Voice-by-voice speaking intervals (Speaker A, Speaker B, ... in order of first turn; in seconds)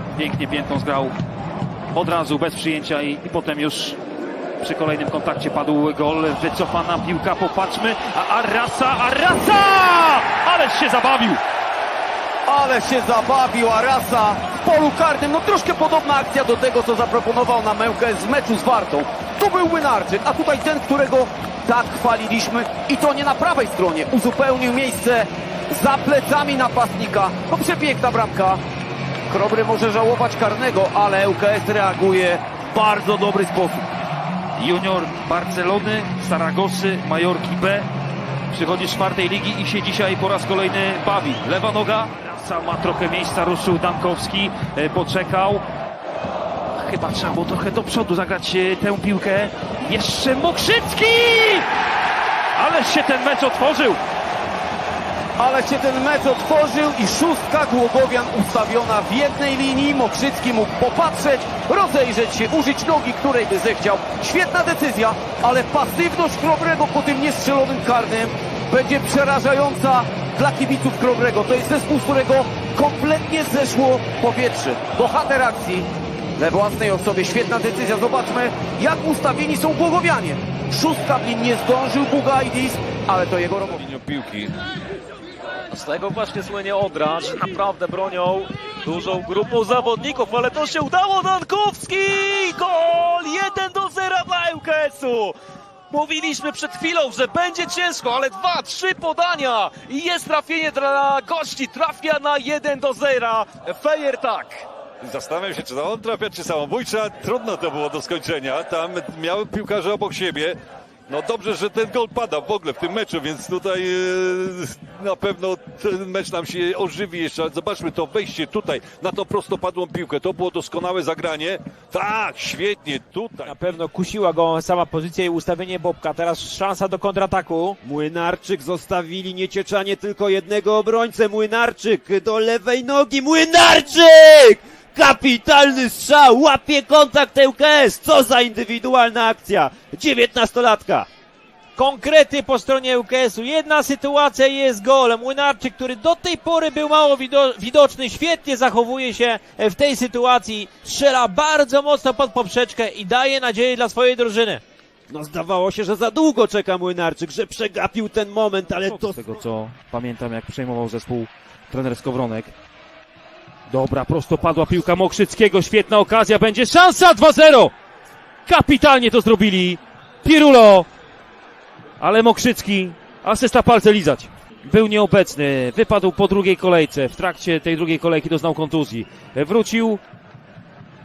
Speaker A: 0.1-1.1, 1.9-4.0, 4.6-11.4, 34.6-37.9, 38.5-45.6, 46.8-51.7, 52.5-54.0, 158.8-162.5, 163.7-167.7, 168.4-170.9, 172.0-180.0
Speaker B: 12.5-28.6, 29.3-33.9, 55.4-83.8
Speaker C: 83.9-84.5, 105.0-110.6, 111.1-123.6
Speaker D: 85.7-95.4, 95.9-104.7
Speaker E: 123.4-127.8, 141.8-154.6
Speaker F: 127.8-141.1, 155.1-159.3